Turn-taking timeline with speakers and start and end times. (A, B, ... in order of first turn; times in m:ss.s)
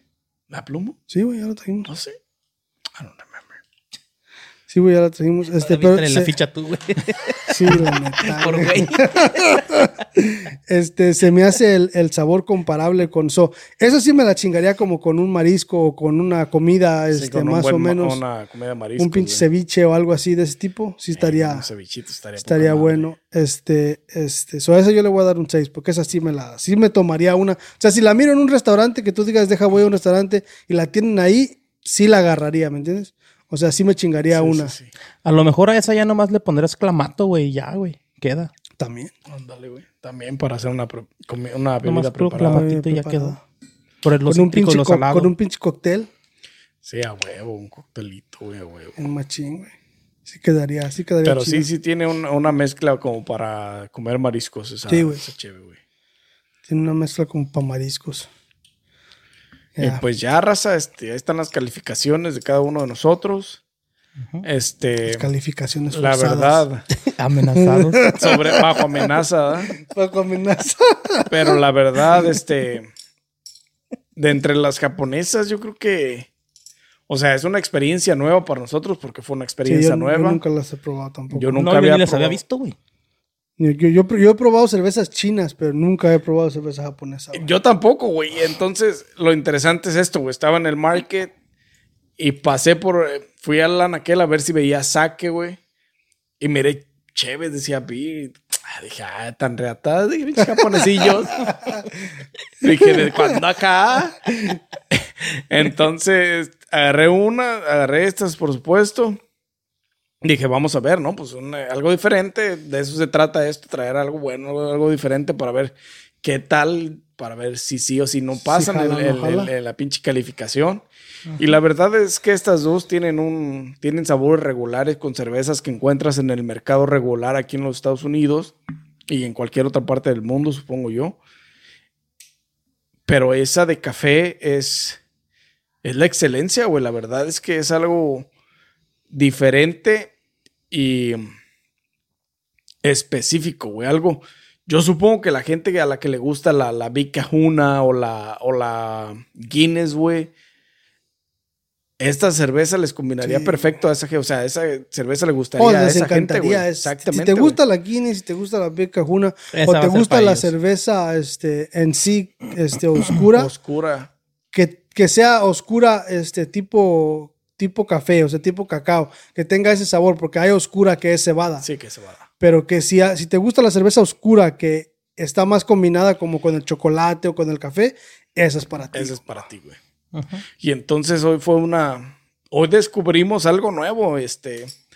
0:00.5-0:01.0 A
0:01.1-0:01.9 B
0:01.9-0:02.2 A
0:03.0-0:03.5 A
0:04.7-0:06.3 B
0:05.6-0:09.6 C
0:07.5-0:18.2 B
0:17.1-0:19.4 A
0:19.0-0:21.7 B
0:21.1-0:23.1 A
0:22.4-0:34.7 B
0:34.3-0:34.9 A
0:35.2-0:38.5 C
0:38.8-0:39.1 B
0:39.3-0:42.7 A
0:41.8-0:43.4 C
0:42.4-0:43.4 B
0:44.0-0:45.3 C
0:44.3-0:46.1 B
0:46.8-0:49.0 A
0:49.0-0:49.7 B
0:50.3-0:51.7 B
0:51.2-0:55.8 A
0:54.9-0:55.2 B
0:56.7-0:58.3 B
0:59.8-1:00.0 B
0:59.8-1:03.6 A
1:04.4-1:05.3 A
1:05.1-1:06.7 B
1:05.9-1:06.8 A
1:07.0-1:08.1 C
1:07.6-1:08.8 B
1:08.2-1:09.7 A
1:09.7-1:11.6 B
1:11.3-1:12.9 A
1:14.2-1:16.3 A
1:17.1-1:20.4 A
1:19.6-1:21.7 B
1:21.3-1:22.4 A
1:21.6-1:22.8 C
1:23.6-1:27.5 B
1:27.3-1:31.3 A
1:32.2-1:35.6 A
1:36.4-1:41.8 A
1:42.6-1:44.2 A
1:44.9-1:49.2 A
1:50.2-2:00.8 A
1:58.5-1:59.5 B
2:01.4-2:08.6 A
2:09.1-2:11.2 A
2:13.1-2:15.0 A
2:15.8-2:18.3 A
2:19.1-2:20.1 A
2:20.7-2:21.3 A
2:22.8-2:30.3 A
2:32.0-2:37.6 A
2:33.2-2:33.7 B
2:35.6-2:43.5 B
2:39.5-2:40.5 C
2:43.2-2:44.1 A
2:44.5-2:51.7 B
2:51.6-2:52.2 A
2:52.4-2:59.4 B
2:58.9-2:59.8 A
3:00.1-3:00.4 C
3:00.6-3:04.7 A